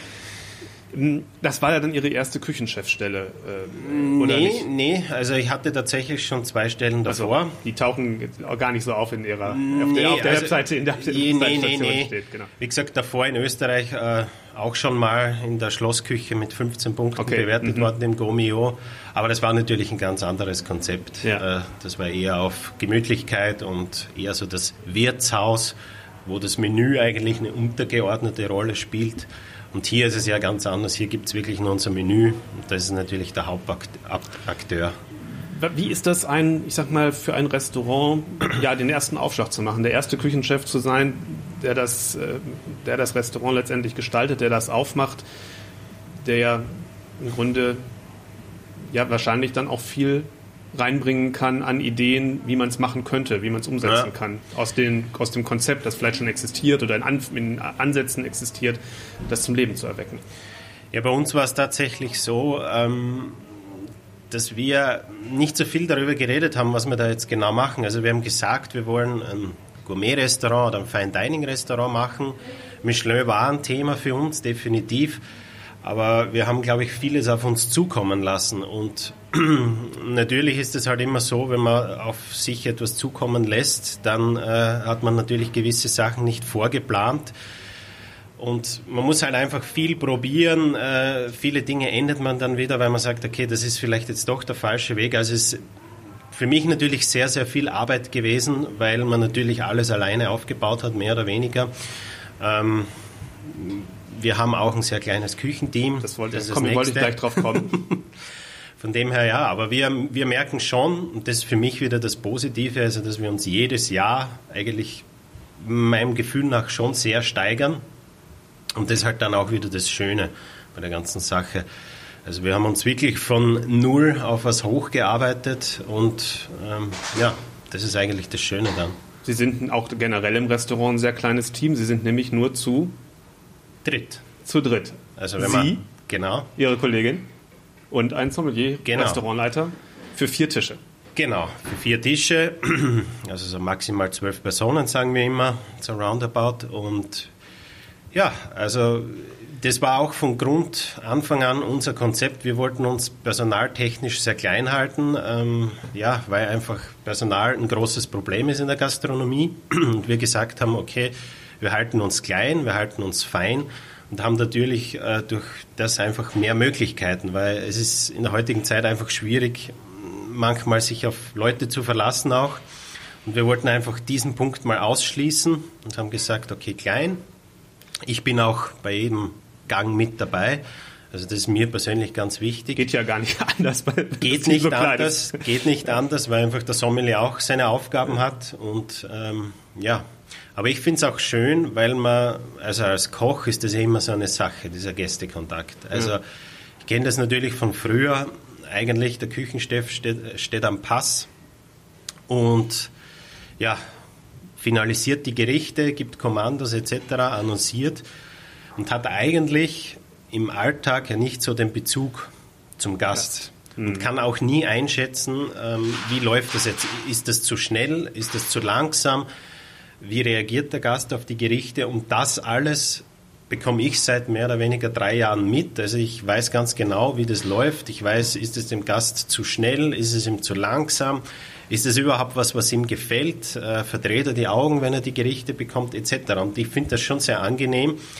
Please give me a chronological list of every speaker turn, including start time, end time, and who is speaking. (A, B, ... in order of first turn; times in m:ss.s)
0:00.9-0:04.7 A
0:03.8-0:07.6 B
0:07.1-0:12.5 A
0:09.5-0:35.0 B
0:17.2-0:17.9 A
0:35.3-0:45.2 A
0:46.2-0:47.8 A
0:48.9-1:00.2 A
0:53.8-0:54.1 B
1:00.9-1:03.6 B
1:04.3-1:15.2 B
1:15.8-1:27.3 B
1:28.4-1:35.6 B
1:36.3-1:41.7 B
1:42.4-1:42.9 B
1:43.4-1:48.0 B
1:46.0-1:47.8 A
1:48.8-1:55.0 B
1:55.6-1:57.8 B
1:58.8-2:01.6 B
2:02.2-2:09.0 B
2:09.2-2:12.9 A
2:13.8-2:14.2 B
2:14.4-2:15.8 A
2:15.2-2:16.5 B
2:16.6-2:17.2 A
2:17.9-2:20.8 A
2:18.8-2:19.2 B
2:21.2-2:27.3 B
2:28.1-2:52.6 B
2:53.2-2:57.2 B
2:58.0-3:02.8 B
3:02.8-3:05.4 A
3:04.2-3:16.2 B
3:16.8-3:21.3 B
3:22.3-3:22.9 B
3:24.6-3:28.0 B
3:28.8-3:39.2 B
3:33.8-3:34.0 A
3:40.0-3:58.0 B